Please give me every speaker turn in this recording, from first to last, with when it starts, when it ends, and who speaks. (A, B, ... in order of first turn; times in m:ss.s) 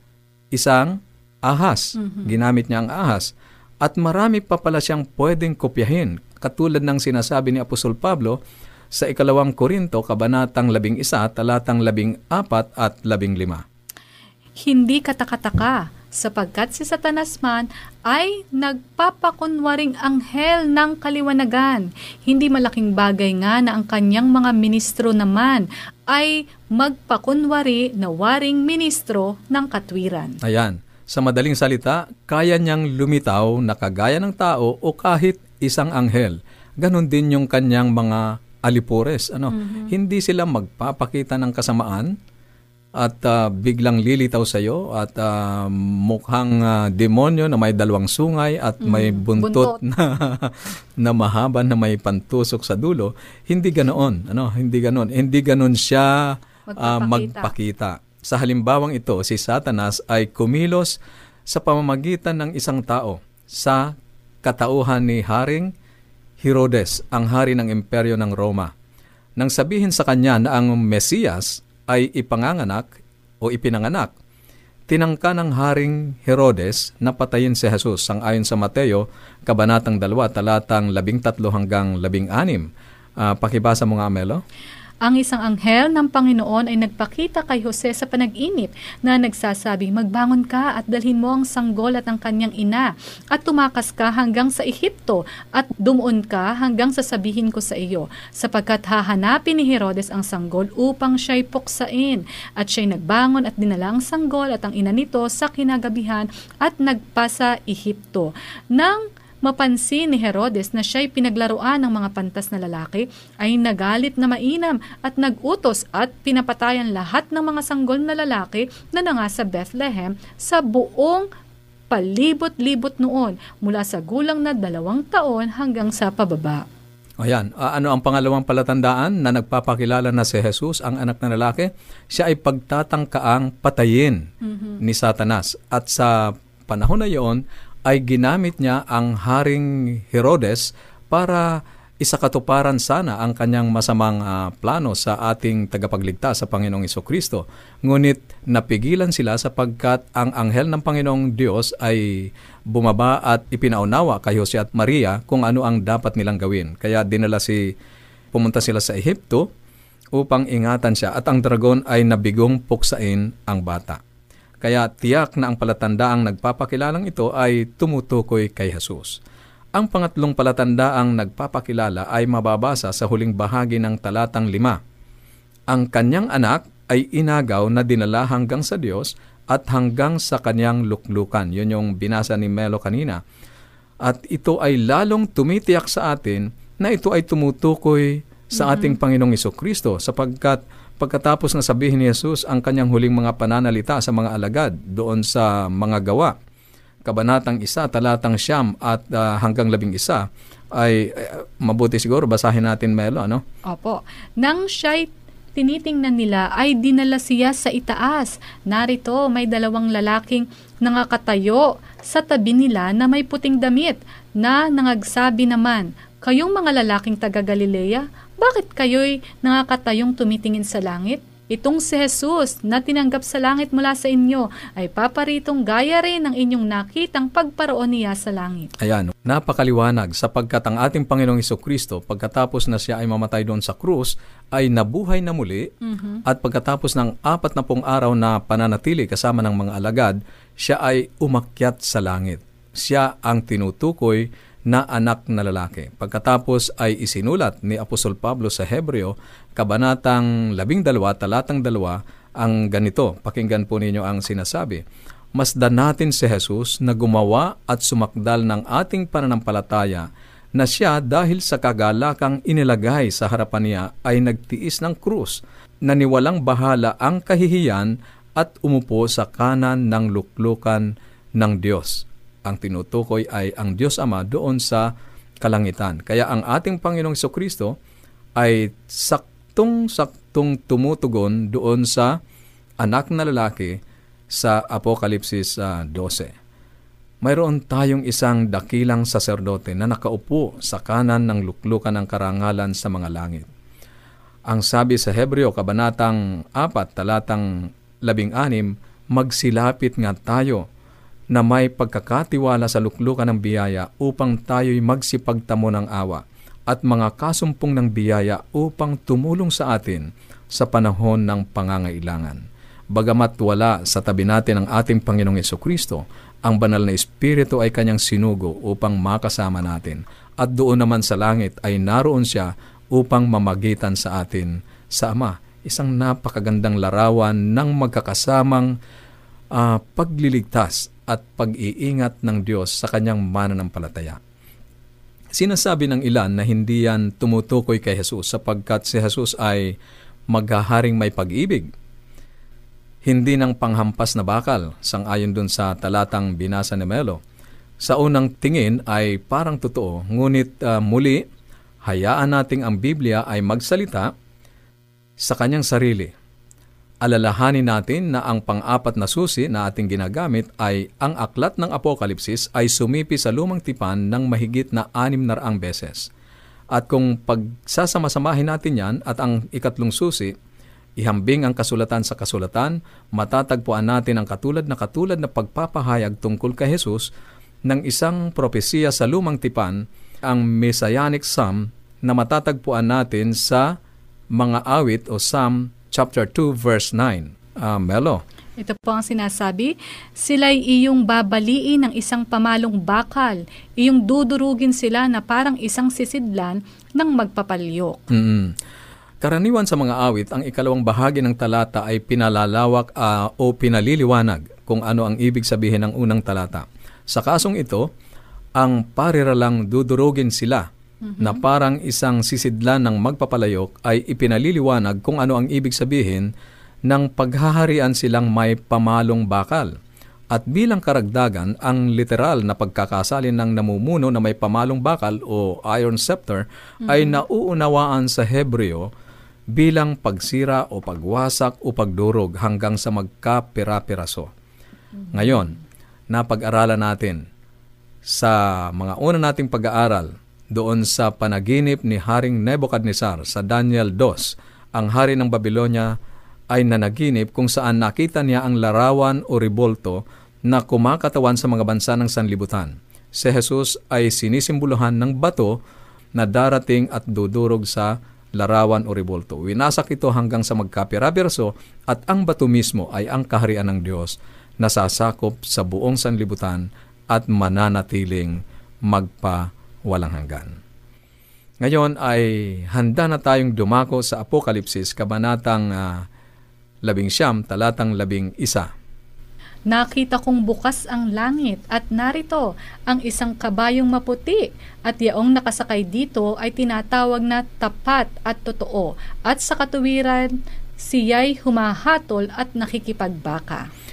0:00.5-0:03.3 A
0:02.0-0:02.4 B
0:03.8-0:08.4 A
0:08.9-0:13.6 A
0:14.6-0:30.4 B
0:30.4-0:42.1 A
0:39.5-0:39.9 B
0:43.0-1:01.0 A
0:48.8-0:49.8 B
0:56.7-0:57.5 B
1:01.5-1:05.7 A
1:06.4-1:08.7 A
1:09.4-1:14.1 A
1:14.9-1:22.7 A
1:23.2-1:24.4 A
1:25.0-2:01.3 B
2:01.9-2:06.6 B
2:07.2-2:14.3 A
2:14.4-2:14.8 B
2:14.8-2:37.6 A
2:38.3-2:39.5 A
2:40.1-2:44.0 A
2:44.6-2:49.2 A
2:49.8-2:54.8 A
2:55.7-3:03.2 A
3:04.0-3:16.3 A
3:08.6-3:08.9 B
3:17.0-3:23.4 A
3:23.7-3:48.7 B
3:48.8-3:55.7 A
3:55.8-3:56.2 B
3:56.2-4:14.8 A
4:15.3-4:37.8 A
4:38.4-4:42.2 A
4:42.8-4:46.3 A
4:47.2-4:53.5 A
4:54.5-5:00.7 A
5:01.3-5:12.4 A
5:12.9-5:28.7 A
5:29.5-5:34.2 A
5:35.3-5:39.7 A
5:40.3-5:41.7 A
5:43.0-5:47.2 A
5:47.8-5:51.2 A
5:51.8-5:54.1 A
5:55.2-5:56.1 A
5:57.0-6:06.1 A
6:06.7-6:10.3 A
6:11.0-6:17.1 A
6:17.6-6:23.7 A
6:24.4-6:28.2 A
6:28.6-6:38.0 B
6:38.1-6:38.5 A
6:39.2-6:47.9 A
6:48.6-6:50.6 A
6:51.0-6:51.4 B
6:51.2-6:56.3 A
6:56.9-6:59.7 A
7:00.3-7:08.9 A
7:06.9-7:07.2 B
7:09.5-7:14.3 A
7:15.1-7:15.6 A
7:16.1-7:17.2 A
7:18.1-7:25.9 A
7:26.5-7:35.6 A
7:36.1-7:50.5 A
7:51.6-7:56.0 A
7:56.8-7:58.7 A
7:59.7-8:13.6 B